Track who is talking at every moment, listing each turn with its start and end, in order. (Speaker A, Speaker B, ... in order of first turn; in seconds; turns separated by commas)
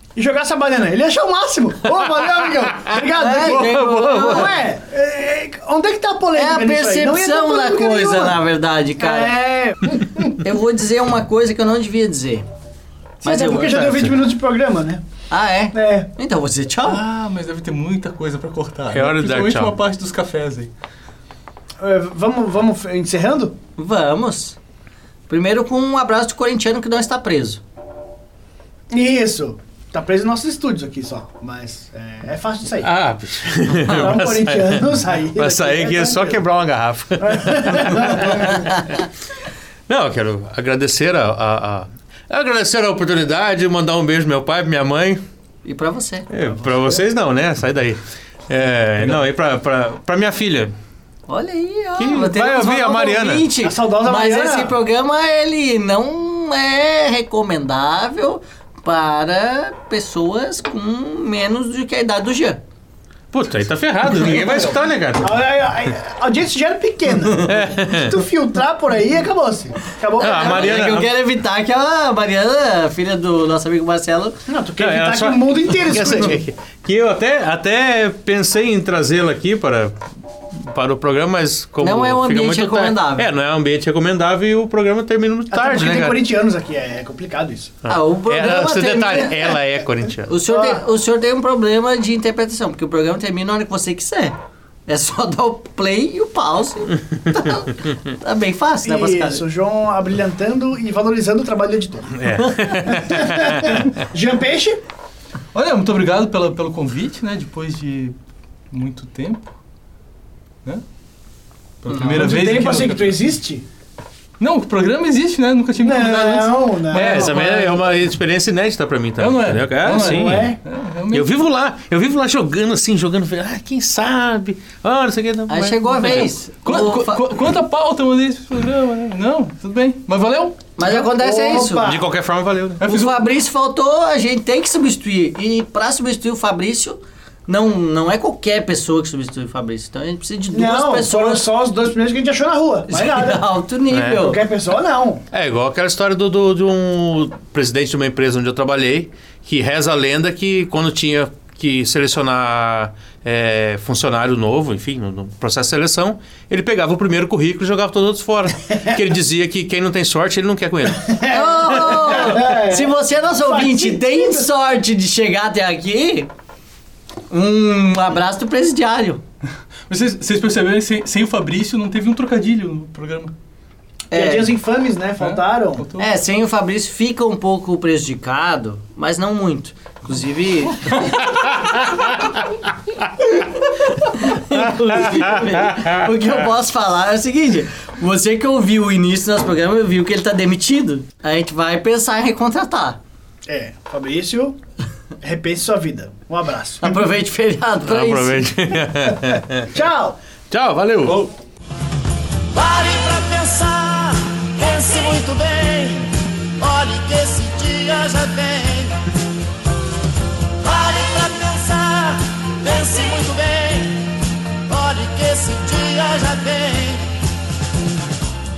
Speaker A: 0.1-8.4, Speaker B: 3.2-4.5, Speaker C: 3.4-4.5, Speaker B: 6.3-9.4, Speaker A: 9.0-10.4, Speaker B: 10.4-12.4, Speaker B: 13.2-13.9, Speaker A: 13.2-15.0, Speaker C: 13.6-14.1, Speaker B: 15.3-17.0, Speaker A: 15.7-16.1, Speaker D: 16.8-20.7, Speaker C: 18.9-19.8, Speaker A: 21.8-23.6, Speaker B: 23.8-24.6, Speaker B: 25.3-27.6, Speaker A: 28.9-32.9, Speaker C: 32.8-39.0, Speaker A: 33.8-36.4, Speaker A: 37.2-38.7, Speaker C: 39.9-45.2, Speaker B: 45.6-46.3, Speaker C: 46.3-50.7, Speaker B: 51.3-62.6, Speaker C: 52.0-53.5, Speaker A: 53.6-54.7, Speaker C: 63.3-65.4, Speaker A: 64.3-70.9, Speaker C: 67.3-68.2, Speaker B: 70.2-74.4, Speaker C: 70.2-71.1, Speaker A: 74.5-76.4, Speaker C: 74.8-80.0, Speaker C: 80.5-86.2, Speaker B: 81.8-83.3, Speaker A: 85.5-87.7, Speaker C: 87.8-90.3, Speaker B: 87.9-89.6, Speaker B: 90.3-94.3, Speaker A: 90.5-90.8, Speaker B: 94.9-99.4, Speaker A: 98.8-102.1, Speaker C: 102.2-103.9, Speaker B: 102.5-103.0, Speaker A: 102.8-104.8, Speaker D: 105.5-108.2, Speaker D: 108.7-109.5, Speaker D: 111.8-113.2, Speaker B: 111.9-112.1, Speaker A: 112.2-113.6, Speaker D: 114.4-117.7, Speaker A: 115.8-117.7, Speaker C: 116.9-120.6, Speaker D: 119.2-121.3, Speaker A: 120.0-120.6, Speaker C: 121.1-126.2, Speaker B: 125.5-127.2, Speaker D: 125.9-131.1, Speaker B: 130.8-131.9, Speaker A: 131.2-132.0, Speaker C: 131.8-132.8, Speaker D: 132.8-133.2, Speaker B: 132.8-141.4, Speaker A: 140.5-143.4, Speaker B: 142.9-144.4, Speaker C: 143.9-144.3, Speaker A: 144.2-145.2, Speaker C: 145.3-162.4, Speaker A: 161.0-164.5, Speaker B: 161.3-166.3, Speaker B: 167.3-169.2, Speaker D: 169.9-173.3, Speaker B: 174.1-174.5, Speaker A: 174.1-175.8, Speaker D: 175.2-176.1, Speaker B: 176.0-181.2, Speaker B: 183.2-193.0, Speaker A: 193.5-194.6, Speaker A: 195.2-197.1, Speaker B: 196.8-198.5, Speaker C: 197.9-199.7, Speaker A: 199.7-200.2, Speaker C: 200.5-201.3, Speaker E: 202.6-206.0, Speaker E: 206.6-208.9, Speaker E: 210.6-213.9, Speaker E: 214.7-217.0